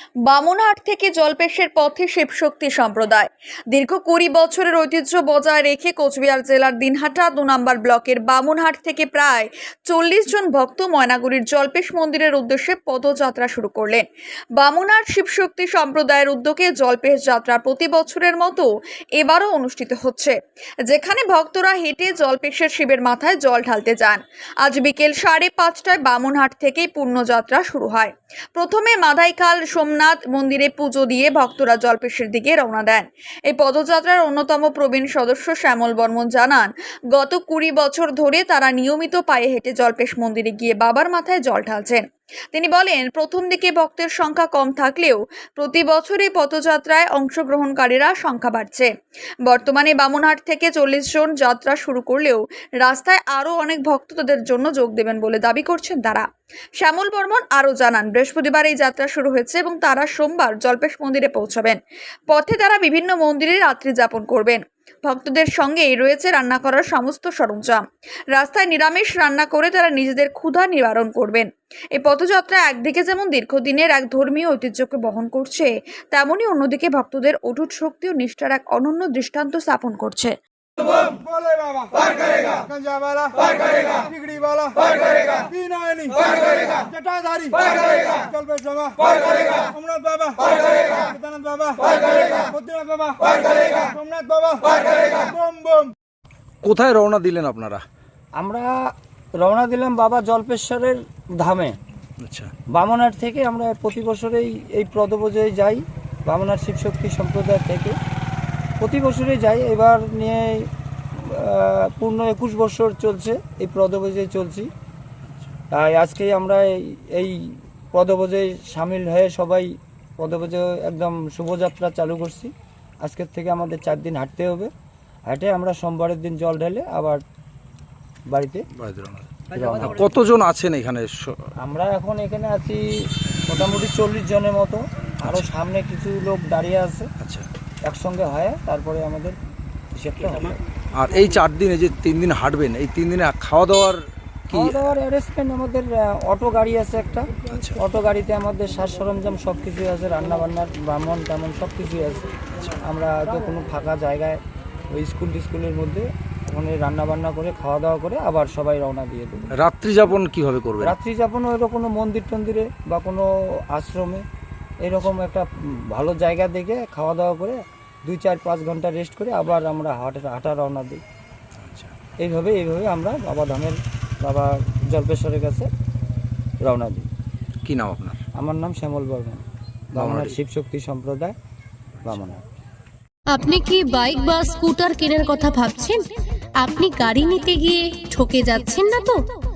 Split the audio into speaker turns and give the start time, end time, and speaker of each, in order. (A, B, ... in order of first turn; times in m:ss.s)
0:00.3-0:14.0 A
0:14.6-0:18.7 A
0:19.2-0:20.3 A
0:20.9-0:42.0 A
0:42.5-0:48.9 A
0:49.5-0:56.2 A
0:56.8-1:01.8 A
1:02.3-1:07.8 A
1:08.3-1:20.3 A
1:21.1-1:35.9 B
1:36.6-1:37.8 C
1:38.4-1:38.7 D
1:39.4-1:41.8 D
1:42.2-1:42.5 C
1:42.7-1:48.0 D
1:48.8-1:54.7 D
1:55.7-2:02.5 D
2:03.0-2:04.7 D
2:05.3-2:07.2 D
2:08.3-2:08.7 D
2:08.8-2:11.5 C
2:09.5-2:10.0 D
2:11.6-2:12.8 D
2:13.5-2:17.1 D
2:17.2-2:17.5 C
2:17.9-2:19.4 D
2:20.0-2:20.6 D
2:21.0-2:24.8 C
2:24.5-2:34.4 D
2:27.5-2:27.8 C
2:34.9-2:39.5 D
2:39.6-2:41.0 C
2:40.8-2:44.2 D
2:44.8-2:51.0 D
2:51.6-2:51.9 C
2:52.2-2:55.7 D
2:56.6-2:57.1 D
2:57.6-2:58.2 C
2:58.4-2:59.4 D
2:59.9-3:01.3 D
3:00.0-3:00.4 C
3:02.0-3:02.4 D
3:03.3-3:06.0 E
3:06.6-3:09.2 E